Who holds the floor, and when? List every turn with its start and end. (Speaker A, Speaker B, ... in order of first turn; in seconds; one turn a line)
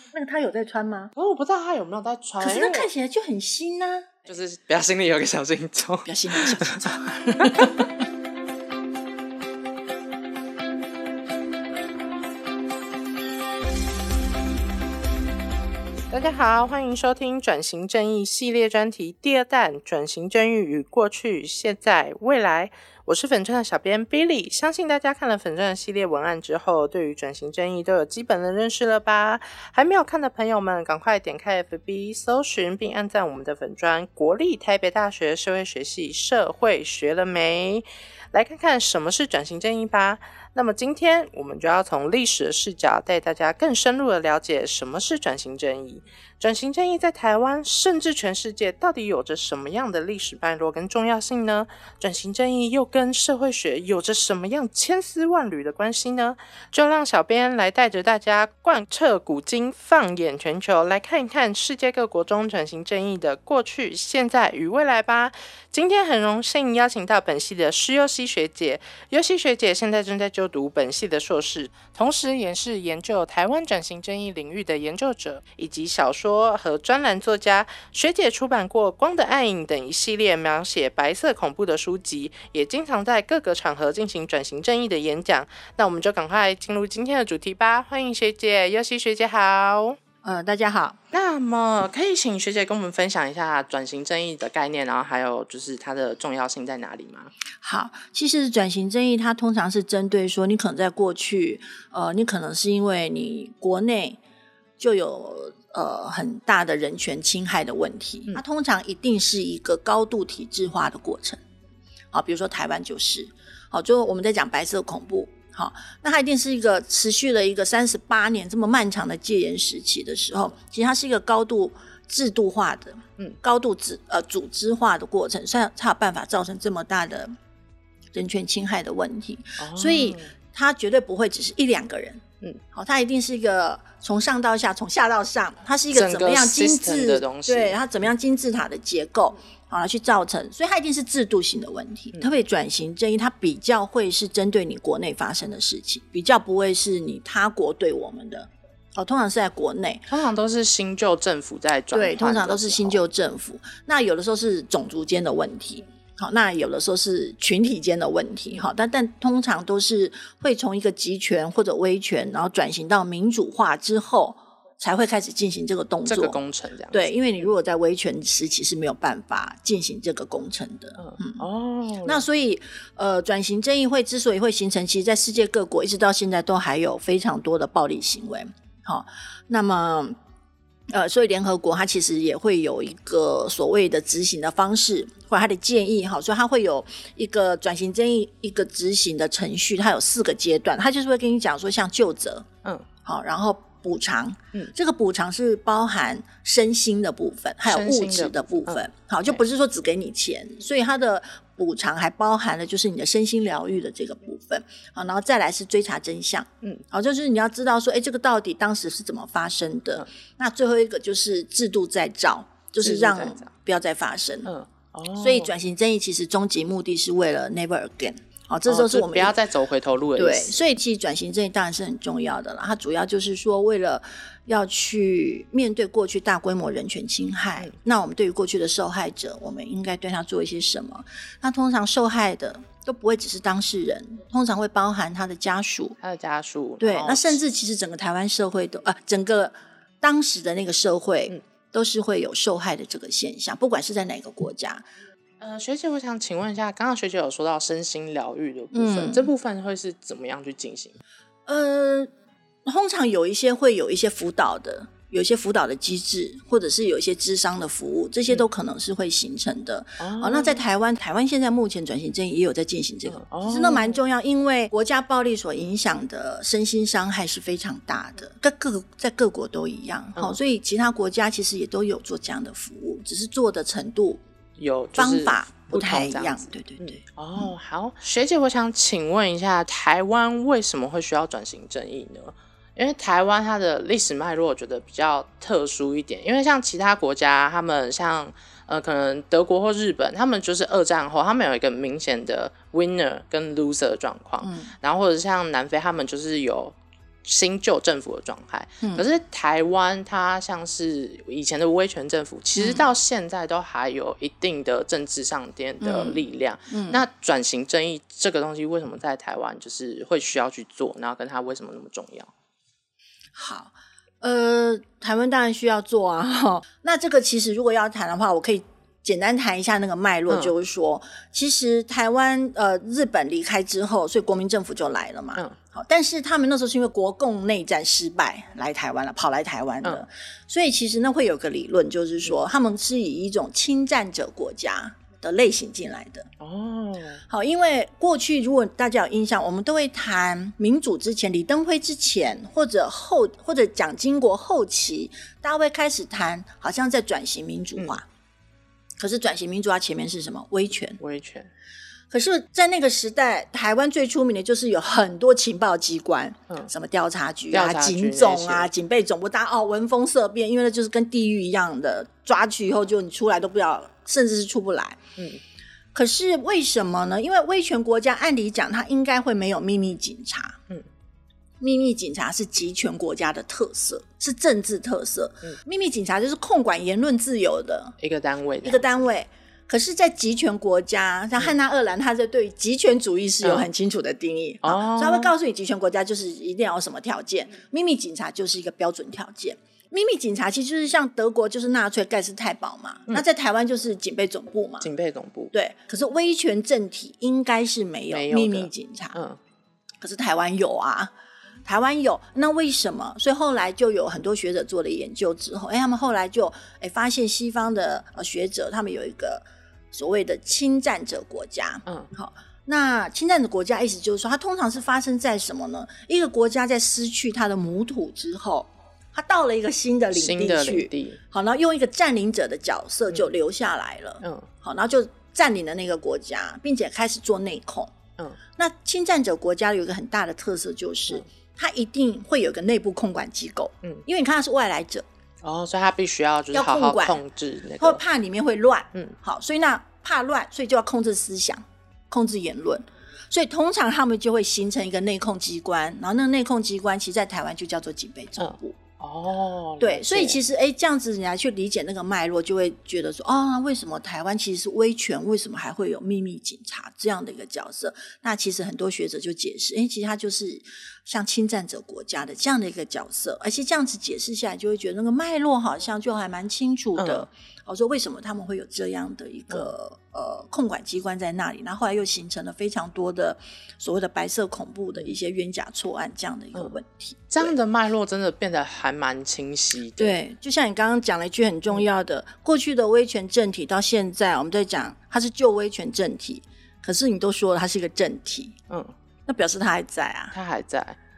Speaker A: 0.1-1.1
Speaker B: 1.2-2.9
Speaker A: 2.4-4.2
Speaker B: 4.2-7.9
Speaker A: 6.1-7.9
Speaker B: 16.1-90.0
Speaker A: 90.2-91.0
Speaker B: 91.1-97.3
Speaker A: 97.6-104.2
Speaker A: 104.8-111.4
Speaker A: 112.1-127.3
Speaker A: 128.1-150.1
Speaker B: 129.6-130.3
Speaker B: 135.9-137.8
Speaker B: 150.1-153.0
Speaker A: 151.9-166.4
Speaker B: 166.1-167.1
Speaker A: 166.9-171.4
Speaker B: 171.0-172.2
Speaker A: 172.1-180.2
Speaker A: 180.9-192.5
Speaker A: 193.0-214.5
Speaker B: 197.7-199.4
Speaker B: 212.8-213.5
Speaker B: 214.5-215.5
Speaker A: 215.2-219.4
Speaker B: 218.7-220.6
Speaker A: 220.2-236.0
Speaker B: 236.0-237.4
Speaker A: 236.8-244.8
Speaker B: 245.4-251.0
Speaker A: 248.7-249.3
Speaker A: 251.5-252.1
Speaker A: 252.7-274.2
Speaker B: 260.0-260.6
Speaker B: 263.1-264.0
Speaker B: 274.6-312.3
Speaker A: 275.0-277.5
Speaker A: 294.4-294.7
Speaker A: 302.6-302.9
Speaker A: 305.8-307.0
Speaker A: 313.4-336.3
Speaker B: 336.4-337.2
Speaker A: 337.3-348.1
Speaker A: 349.0-351.0
Speaker B: 351.0-351.5
Speaker A: 352.1-365.0
Speaker B: 357.5-358.7
Speaker A: 365.9-370.6
Speaker A: 371.6-378.0
Speaker B: 378.0-379.1
Speaker A: 378.6-394.9
Speaker B: 383.4-383.7
Speaker B: 384.6-385.3
Speaker B: 394.8-395.5
Speaker A: 395.5-399.2
Speaker B: 398.1-399.4
Speaker A: 400.0-401.1
Speaker A: 401.6-427.9
Speaker B: 420.1-421.2
Speaker B: 424.2-424.5
Speaker A: 428.6-435.1
Speaker B: 435.4-438.0
Speaker A: 436.5-437.2
Speaker A: 437.8-448.8
Speaker B: 448.4-450.4
Speaker A: 449.8-477.5
Speaker B: 467.0-467.3
Speaker B: 477.3-480.2
Speaker A: 480.0-488.6
Speaker A: 489.3-490.3
Speaker B: 490.3-491.0